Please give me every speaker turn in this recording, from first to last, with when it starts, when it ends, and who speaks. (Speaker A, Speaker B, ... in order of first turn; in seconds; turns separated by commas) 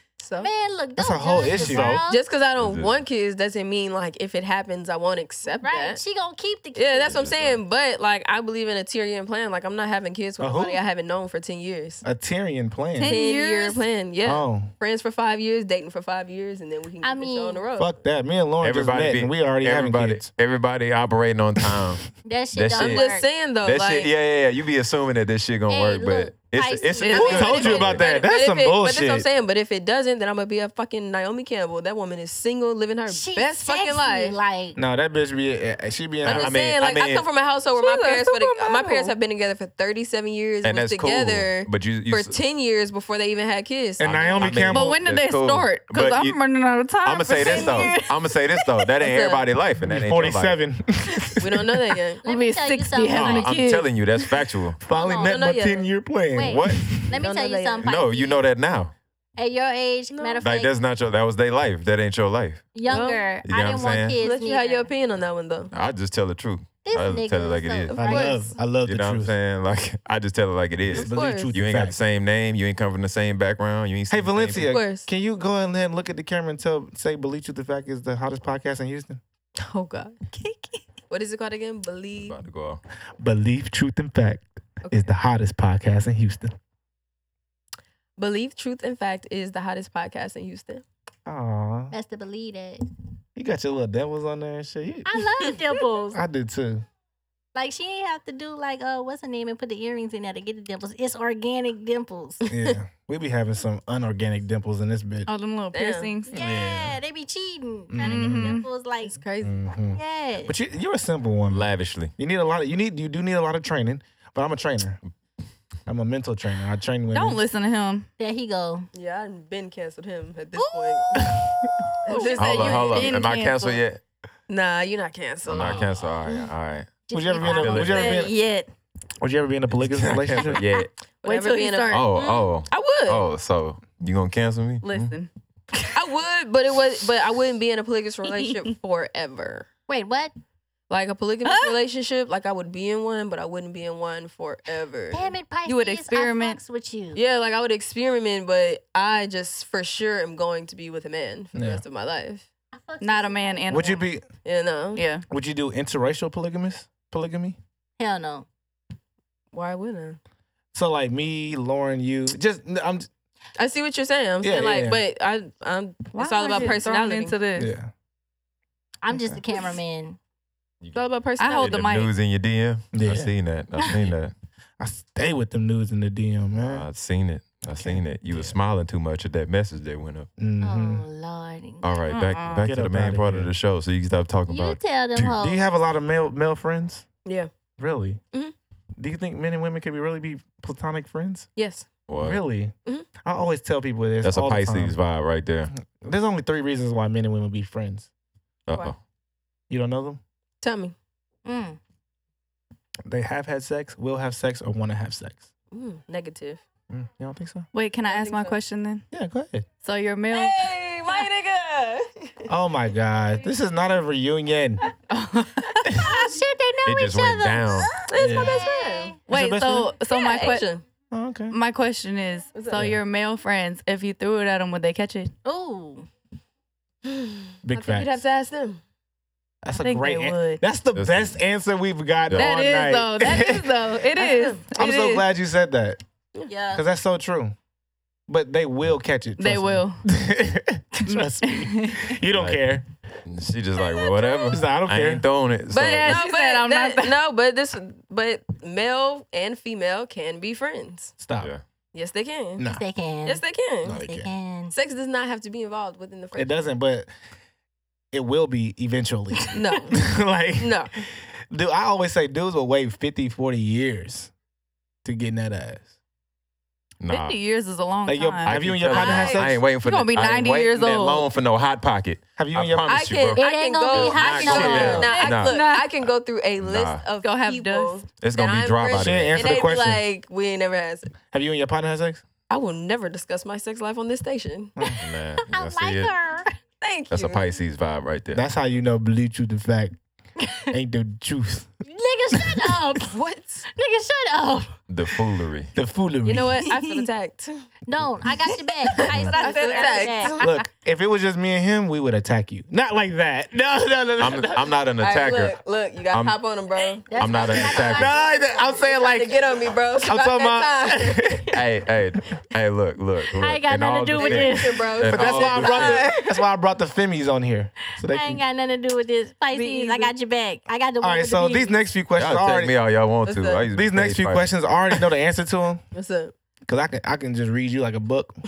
Speaker A: 0.2-0.5, Speaker B: 0.4-2.2, Speaker C: 1.0-2.0, Speaker A: 1.4-6.0, Speaker D: 2.6-3.0, Speaker B: 5.6-7.2, Speaker A: 6.7-12.0, Speaker D: 7.1-7.6, Speaker C: 10.4-10.8, Speaker C: 12.0-13.2, Speaker E: 13.0-13.8, Speaker A: 13.0-17.9, Speaker C: 14.2-14.7, Speaker B: 17.0-17.6, Speaker C: 17.8-20.3, Speaker D: 18.6-23.1, Speaker B: 22.2-23.2, Speaker A: 22.8-24.1, Speaker D: 23.6-28.1, Speaker B: 25.7-28.2, Speaker A: 27.1-34.4, Speaker C: 27.1-29.2, Speaker B: 33.1-34.8, Speaker C: 34.8-36.5, Speaker D: 36.2-37.2, Speaker A: 36.2-44.6, Speaker E: 37.7-39.1, Speaker D: 40.6-42.4, Speaker C: 44.0-45.0, Speaker D: 44.0-46.4, Speaker E: 44.7-48.7, Speaker D: 47.0-50.6, Speaker A: 47.4-47.9, Speaker A: 49.0-49.5, Speaker C: 49.8-51.7, Speaker A: 51.4-52.2, Speaker B: 52.2-53.5, Speaker E: 52.2-54.3, Speaker D: 53.1-54.8, Speaker C: 54.8-57.2, Speaker B: 54.9-55.4, Speaker A: 55.2-55.9, Speaker B: 56.3-58.4, Speaker D: 56.4-56.9, Speaker A: 57.1-57.9, Speaker D: 57.8-58.9, Speaker B: 59.4-60.7, Speaker A: 60.1-60.4, Speaker D: 60.4-62.7, Speaker B: 62.7-64.9, Speaker A: 62.9-63.2, Speaker D: 63.4-64.2, Speaker A: 64.2-65.7, Speaker D: 65.7-68.0, Speaker B: 66.8-68.6, Speaker A: 67.9-68.5, Speaker C: 68.0-69.3, Speaker D: 68.8-74.7, Speaker C: 70.9-72.0, Speaker A: 70.9-71.5, Speaker C: 74.1-79.2, Speaker A: 74.6-75.1, Speaker A: 79.6-80.2, Speaker E: 80.3-80.8, Speaker A: 81.1-82.4, Speaker D: 82.2-82.8, Speaker C: 83.2-86.5, Speaker A: 84.8-85.1, Speaker A: 88.2-90.8, Speaker C: 91.2-91.9, Speaker B: 91.9-92.8, Speaker C: 93.3-95.2, Speaker B: 95.0-96.2, Speaker C: 96.1-96.8, Speaker B: 97.5-102.5, Speaker A: 102.5-102.7, Speaker C: 102.5-105.3, Speaker E: 105.2-106.4, Speaker A: 105.7-106.1, Speaker B: 106.3-109.2, Speaker C: 106.3-107.0, Speaker C: 107.9-108.6, Speaker E: 108.0-108.7, Speaker A: 109.0-109.6, Speaker C: 109.4-115.0, Speaker B: 109.9-110.5, Speaker D: 111.5-112.1, Speaker C: 115.9-117.4, Speaker E: 117.1-118.1, Speaker B: 118.2-118.9, Speaker A: 118.9-121.3, Speaker B: 120.6-121.3, Speaker C: 121.2-121.5, Speaker A: 122.0-123.2, Speaker E: 122.1-123.8, Speaker D: 122.3-124.0, Speaker A: 124.5-125.9, Speaker D: 125.5-128.3, Speaker B: 127.1-128.2, Speaker C: 127.1-128.3, Speaker E: 127.9-128.7, Speaker C: 129.2-130.6, Speaker D: 129.7-130.9, Speaker A: 131.2-133.3, Speaker E: 131.2-132.1, Speaker D: 131.9-135.1, Speaker E: 134.8-135.9, Speaker A: 135.9-139.7, Speaker B: 139.9-140.3, Speaker A: 140.9-145.3, Speaker E: 141.4-141.8, Speaker B: 145.1-147.2, Speaker E: 145.6-146.6, Speaker A: 147.1-152.5, Speaker C: 151.5-151.8, Speaker B: 152.7-153.9, Speaker E: 153.0-154.0, Speaker C: 153.7-154.2, Speaker A: 154.4-155.0, Speaker E: 154.9-155.2, Speaker C: 155.3-157.6, Speaker B: 158.0-158.4, Speaker A: 159.5-160.2, Speaker C: 160.7-163.1, Speaker A: 163.6-167.4, Speaker C: 164.4-165.0, Speaker E: 166.1-167.7, Speaker C: 167.6-167.9, Speaker B: 169.0-170.2, Speaker C: 169.1-169.4, Speaker A: 170.9-171.9, Speaker E: 171.4-172.1, Speaker D: 171.6-174.3, Speaker C: 172.9-173.3, Speaker C: 174.8-176.8, Speaker D: 176.6-180.3, Speaker C: 177.7-178.5, Speaker C: 180.4-181.1, Speaker B: 180.6-182.0, Speaker D: 181.8-185.4, Speaker E: 182.1-182.7, Speaker C: 182.6-183.5, Speaker B: 184.5-185.6, Speaker C: 185.4-187.1, Speaker A: 187.2-187.5, Speaker C: 187.8-188.2, Speaker C: 189.0-191.5, Speaker A: 191.6-191.9, Speaker D: 192.1-192.4, Speaker C: 192.2-192.7, Speaker C: 193.2-195.0, Speaker D: 194.2-195.7, Speaker C: 195.7-198.1, Speaker D: 198.7-199.0, Speaker C: 199.7-200.2, Speaker A: 200.6-200.9, Speaker B: 201.4-201.8, Speaker C: 203.1-205.5, Speaker A: 205.7-206.6, Speaker C: 206.9-207.7, Speaker E: 207.7-209.0, Speaker A: 208.1-208.6, Speaker C: 209.1-209.7, Speaker E: 209.8-211.2, Speaker A: 210.3-212.5, Speaker C: 212.5-214.8, Speaker E: 215.1-216.1, Speaker B: 215.9-219.2, Speaker D: 216.8-217.9, Speaker A: 218.1-219.2, Speaker C: 218.2-218.6, Speaker E: 219.3-220.7, Speaker C: 219.3-220.0, Speaker A: 220.1-220.8, Speaker B: 220.2-220.6, Speaker C: 221.1-221.6, Speaker E: 221.5-225.3, Speaker A: 222.5-222.9, Speaker C: 222.7-223.0, Speaker B: 225.4-226.1, Speaker A: 227.0-228.8, Speaker C: 227.6-228.1, Speaker C: 229.6-233.7, Speaker E: 229.7-230.6, Speaker D: 230.9-231.4, Speaker D: 232.3-232.5, Speaker E: 232.3-235.2, Speaker A: 234.2-234.6, Speaker C: 234.7-236.0, Speaker B: 236.5-236.8, Speaker C: 236.7-237.5, Speaker C: 238.3-242.8, Speaker E: 239.4-240.0, Speaker E: 241.1-242.2, Speaker D: 242.3-242.6, Speaker D: 243.2-246.2, Speaker A: 243.9-244.5, Speaker C: 244.5-245.2, Speaker A: 245.7-251.1, Speaker E: 245.8-247.1, Speaker C: 251.2-251.5, Speaker A: 251.9-252.6, Speaker C: 252.6-252.8, Speaker B: 252.7-254.7, Speaker A: 253.2-254.0, Speaker C: 253.8-254.3, Speaker A: 254.7-256.6, Speaker C: 256.3-257.1, Speaker C: 258.1-260.8, Speaker A: 259.5-260.0, Speaker A: 260.6-260.9, Speaker C: 261.5-264.3, Speaker C: 265.0-265.9, Speaker D: 267.0-267.4, Speaker E: 267.1-271.3, Speaker C: 268.1-269.6, Speaker D: 268.4-275.6, Speaker C: 272.4-273.1, Speaker A: 272.9-281.1, Speaker B: 273.4-275.1, Speaker C: 274.4-275.0, Speaker E: 274.6-275.9, Speaker D: 276.6-277.1, Speaker E: 277.2-278.1, Speaker D: 278.2-279.8, Speaker C: 278.9-280.0, Speaker C: 281.3-282.2, Speaker A: 282.5-284.7, Speaker D: 285.0-286.1, Speaker B: 285.4-286.5, Speaker A: 286.8-287.5, Speaker D: 287.1-288.4, Speaker C: 288.3-289.9, Speaker B: 290.4-290.7, Speaker C: 290.7-291.7, Speaker B: 291.8-293.1, Speaker C: 292.3-292.7, Speaker E: 293.1-293.6, Speaker B: 293.7-294.7, Speaker D: 294.9-295.7, Speaker C: 295.7-296.5, Speaker A: 296.2-297.6, Speaker B: 297.9-300.4, Speaker A: 298.9-300.5, Speaker E: 299.0-300.5, Speaker C: 300.4-304.7, Speaker D: 304.2-305.6, Speaker A: 305.0-311.6, Speaker D: 306.1-306.4, Speaker B: 307.1-308.2, Speaker D: 307.1-308.1, Speaker C: 307.7-309.4, Speaker C: 310.0-311.6, Speaker D: 311.5-316.1, Speaker B: 313.4-314.9, Speaker A: 314.1-316.4, Speaker C: 315.1-318.4, Speaker B: 318.0-321.8, Speaker A: 319.5-320.1, Speaker C: 321.0-322.7, Speaker D: 322.1-324.4, Speaker A: 323.2-323.6, Speaker C: 323.7-325.8, Speaker A: 325.9-326.3, Speaker C: 326.7-328.3